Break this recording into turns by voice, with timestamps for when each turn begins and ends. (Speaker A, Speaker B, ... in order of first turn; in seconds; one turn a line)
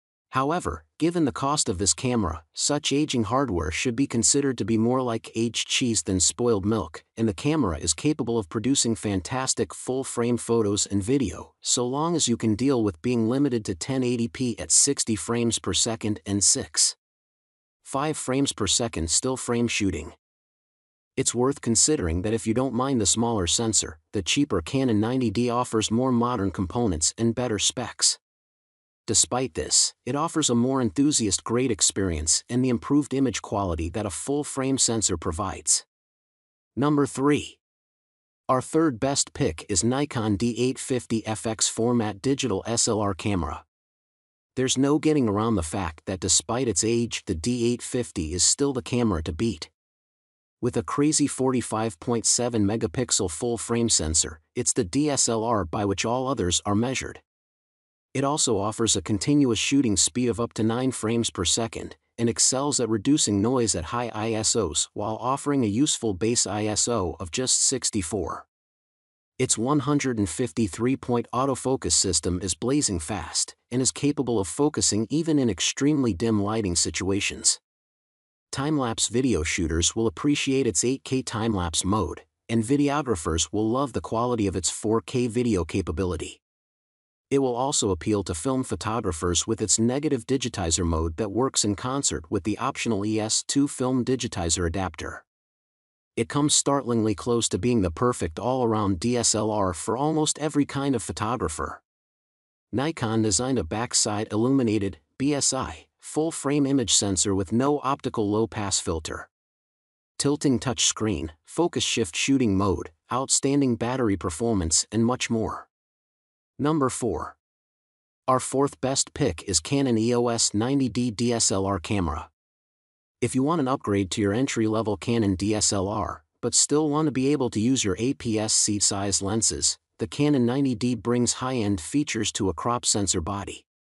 Speaker A: 0.3-17.0
Speaker A: 17.8-20.1
Speaker A: 21.2-28.2
Speaker A: 29.1-35.9
Speaker A: 36.8-37.6
Speaker A: 38.5-43.6
Speaker A: 44.5-49.7
Speaker A: 50.6-57.2
Speaker A: 58.1-68.5
Speaker A: 69.4-77.6
Speaker A: 78.5-86.4
Speaker A: 87.3-95.2
Speaker A: 96.2-101.8
Speaker A: 102.7-109.3
Speaker A: 110.2-115.7
Speaker A: 116.6-117.4
Speaker A: 118.3-122.3
Speaker A: 123.2-133.7